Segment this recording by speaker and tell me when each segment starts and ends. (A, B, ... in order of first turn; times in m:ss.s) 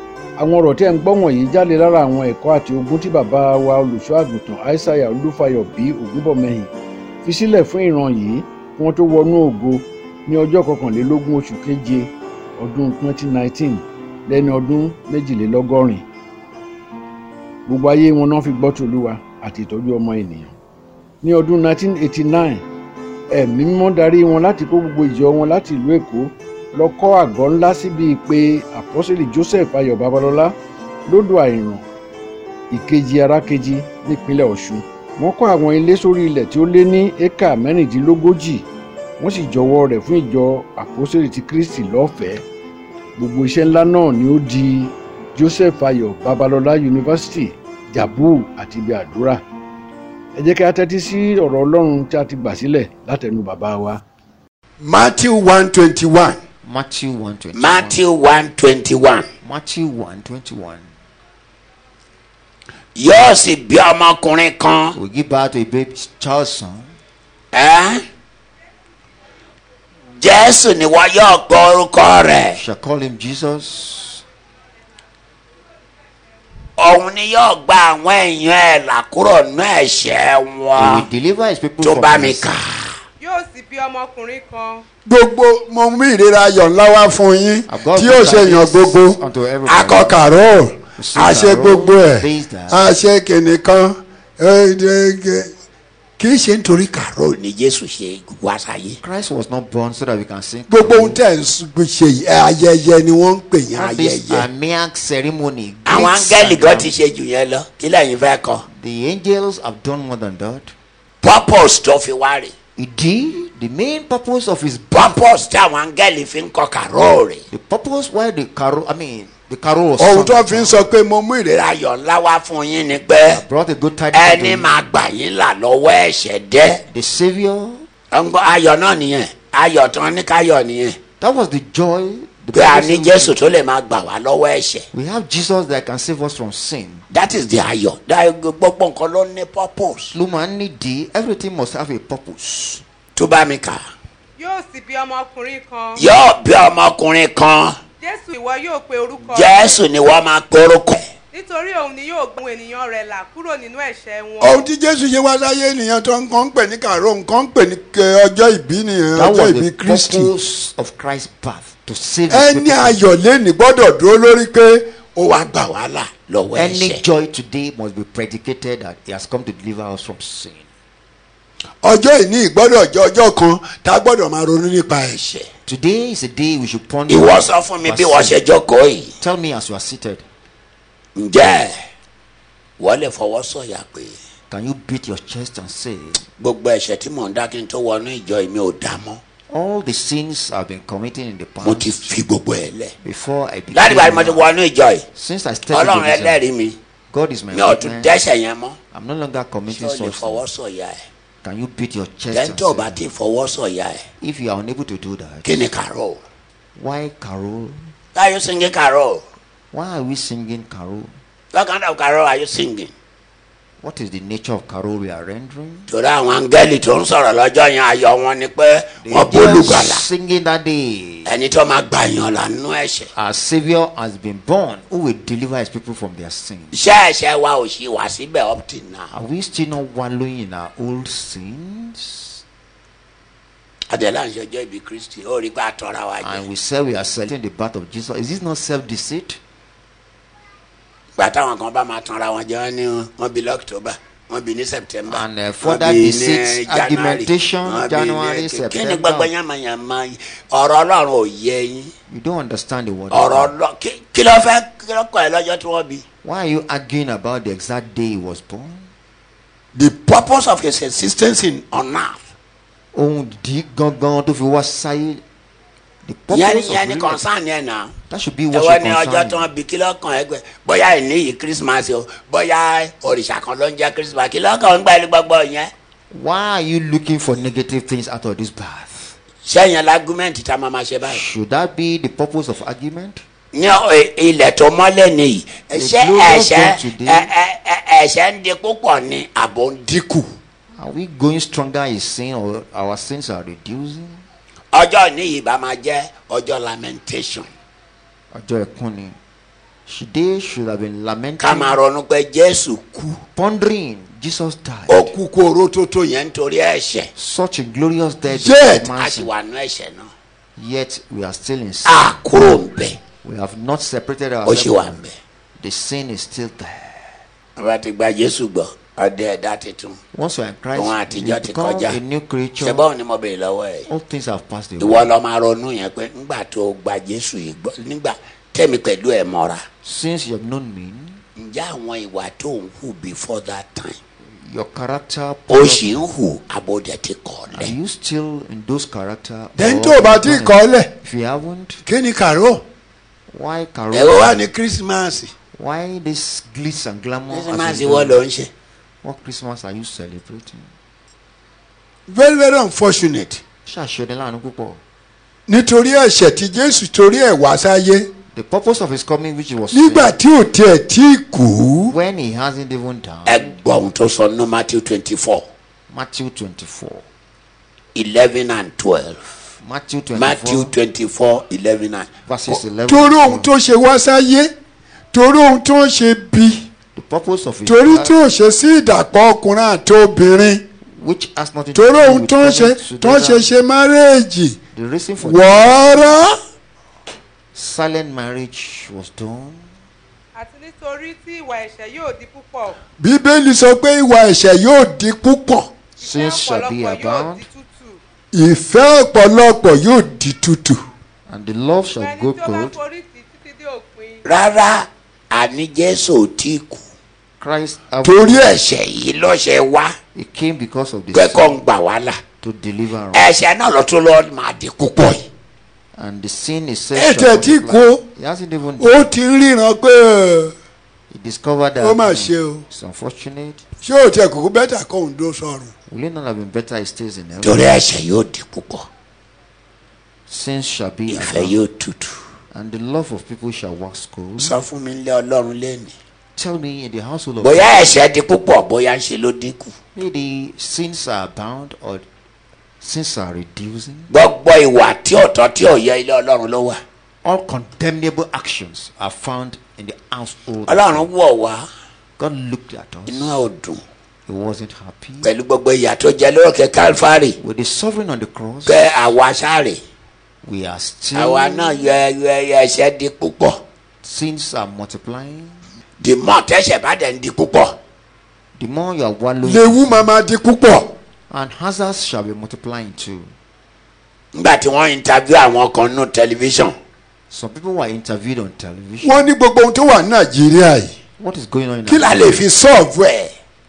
0:00.4-0:06.7 A
0:07.2-0:16.1 A
0:17.7-0:20.6 A
0:21.2-0:22.6 A
0:23.3-0:30.6 A
0:31.1-0:31.9 A
0:32.7-0:38.7 A
0:39.2-0:42.4 A
0:43.2-0:49.4 A
0:50.4-0:54.0 A
0:54.8-0:56.4 B
0:56.6-0:58.0 C
0:57.5-0:59.3 D
0:59.4-1:00.9 C
1:03.0-1:05.0 D
1:04.9-1:06.9 C
1:07.5-1:08.0 D
1:10.2-1:12.6 D
1:12.5-1:14.2 C
1:16.8-1:21.1 D
1:20.8-1:22.6 C
1:21.8-1:23.0 D
1:23.2-1:24.8 E
1:25.1-1:29.2 B
1:27.7-1:30.3 C
1:29.7-1:30.1 D
1:29.9-1:35.5 B
1:31.0-1:32.9 C
1:36.2-1:36.7 B
1:36.6-1:39.0 D
1:39.0-1:41.2 C
1:40.7-1:43.9 B
1:43.8-1:44.5 D
1:43.8-1:46.9 C
1:45.9-1:48.6 D
1:48.7-1:50.7 C
1:51.2-1:52.5 D
1:52.8-1:55.2 C
1:54.9-1:57.4 D
1:57.5-2:00.9 C
2:00.0-2:01.6 B
2:01.5-2:03.4 D
2:03.3-2:04.7 C
2:04.1-2:06.8 D
2:06.9-2:07.9 C
2:08.1-2:11.0 D
2:11.2-2:13.4 C
2:12.5-2:14.8 D
2:14.9-2:17.0 C
2:17.1-2:20.1 D
2:20.1-2:22.8 C
2:23.2-2:23.8 D
2:24.4-2:26.1 E
2:26.0-2:27.8 D
2:28.0-2:29.8 E
2:29.2-2:31.0 D
2:31.3-2:34.6 E
2:34.4-2:40.3 B
2:39.1-2:43.0 C
2:42.3-2:45.0 B
2:45.2-2:47.0 D
2:46.5-2:50.7 C
2:51.8-2:55.2 B
2:55.2-2:55.5 D
2:55.7-2:58.4 C
2:57.1-2:59.1 D
2:59.2-3:00.2 C
3:01.2-3:01.7 D
3:02.8-3:04.2 D
3:04.5-3:06.2 C
3:06.4-3:09.2 D
3:09.5-3:12.2 C
3:11.6-3:12.9 D
3:13.0-3:14.5 C
3:13.7-3:15.0 D
3:15.1-3:16.4 C
3:15.7-3:16.8 D
3:17.1-3:18.2 C
3:17.5-3:18.8 D
3:18.9-3:20.4 C
3:19.7-3:21.0 D
3:21.4-3:23.0 C
3:22.3-3:24.0 D
3:24.2-3:25.7 C
3:25.4-3:26.2 D
3:26.8-3:27.8 C
3:28.2-3:29.2 D
3:29.7-3:31.2 C
3:31.5-3:32.9 D
3:33.8-3:35.9 C
3:35.9-3:40.0 D
3:39.0-3:41.3 C
3:41.3-3:43.1 D
3:43.1-3:46.8 C
3:46.7-3:49.1 D
3:49.1-3:52.4 C
3:53.9-3:56.4 D
3:56.2-3:59.4 C
4:01.2-4:11.9 D
4:05.1-4:09.3 C
4:12.1-4:13.5 C
4:13.1-4:16.0 D
4:16.2-4:18.9 C
4:19.8-4:22.2 D
4:22.9-4:25.2 C
4:26.0-4:27.2 C
4:26.3-4:27.9 D
4:28.1-4:29.5 C
4:28.5-4:35.7 D
4:36.1-4:39.2 C
4:39.4-4:41.2 D
4:41.0-4:43.2 C
4:43.5-4:50.0 D
4:45.7-4:47.3 C
4:49.9-4:50.3 B
4:50.8-4:54.2 C
4:54.7-4:57.5 D
4:58.3-4:59.2 C
4:59.9-5:01.8 C
5:01.4-5:03.2 D
5:03.4-5:05.1 C
5:04.9-5:07.1 D
5:07.2-5:09.3 C
5:08.3-5:08.8 B
5:08.8-5:10.1 D
5:10.6-5:12.1 C
5:11.8-5:13.0 D
5:13.2-5:15.0 C
5:14.4-5:15.2 D
5:15.6-5:17.1 C
5:17.6-5:20.0 D
5:20.1-5:22.8 C
5:20.7-5:22.0 D
5:22.6-5:23.9 D
5:23.9-5:25.1 C
5:24.8-5:29.6 D
5:29.8-5:31.2 C
5:31.4-5:34.0 D
5:34.3-5:36.0 C
5:35.5-5:37.7 D
5:37.5-5:41.8 C
5:39.6-5:40.9 B
5:41.8-5:42.6 B
5:43.3-5:44.4 C
5:43.9-5:45.3 D
5:45.6-5:48.2 C
5:47.3-5:48.5 D
5:49.0-5:50.7 C
5:52.1-5:53.4 B
5:53.7-5:54.8 C
5:55.5-5:58.1 B
5:58.3-6:00.2 C
5:59.7-6:02.0 B
6:01.9-6:03.6 C
6:03.3-6:05.5 D
6:05.9-6:07.0 C
6:08.0-6:09.3 D
6:09.6-6:10.8 C
6:10.2-6:12.1 D
6:12.3-6:13.5 C
6:12.5-6:14.5 B
6:15.1-6:16.7 B
6:16.9-6:18.2 C
6:17.7-6:20.6 B
6:20.9-6:23.5 C
6:21.8-6:24.6 B
6:24.7-6:26.2 C
6:25.2-6:26.4 B
6:27.5-6:29.7 C
6:30.4-6:32.8 E
6:33.0-6:35.7 B
6:36.0-6:38.0 E
6:36.0-6:37.5 C
6:38.3-6:40.8 B
6:41.3-6:42.8 C
6:42.0-6:44.3 E
6:44.2-6:46.8 D
6:47.4-6:48.6 C
6:48.0-6:48.3 B
6:48.2-6:50.0 D
6:50.2-6:51.6 C
6:51.1-6:52.2 D
6:52.4-6:53.3 C
6:53.1-6:55.3 D
6:56.0-6:59.1 C
6:57.0-6:58.0 B
6:58.8-7:00.5 B
7:01.1-7:03.6 C
7:01.8-7:02.6 B
7:03.8-7:05.7 B
7:05.9-7:07.8 C
7:07.4-7:08.9 D
7:10.3-7:11.6 C
7:11.1-7:12.2 D
7:12.5-7:14.6 C
7:14.4-7:15.9 D
7:16.4-7:18.0 C
7:17.4-7:19.7 D
7:20.0-7:22.1 C
7:22.8-7:24.1 C
7:24.1-7:26.8 D
7:27.2-7:31.1 C
7:30.7-7:31.7 D
7:32.2-7:33.4 C
7:33.1-7:33.8 D
7:34.3-7:35.3 C
7:35.2-7:37.4 D
7:37.4-7:38.8 C
7:38.7-7:39.8 D
7:40.4-7:42.0 C
7:41.1-7:43.6 D
7:44.0-7:45.6 C
7:46.0-7:47.8 D
7:48.6-7:50.1 C
7:49.4-7:50.9 B
7:51.3-7:53.3 C
7:54.3-7:56.8 D
7:57.3-7:59.3 C
7:59.0-8:00.9 B
8:01.2-8:02.4 C
8:01.9-8:03.1 B
8:01.9-8:03.3 D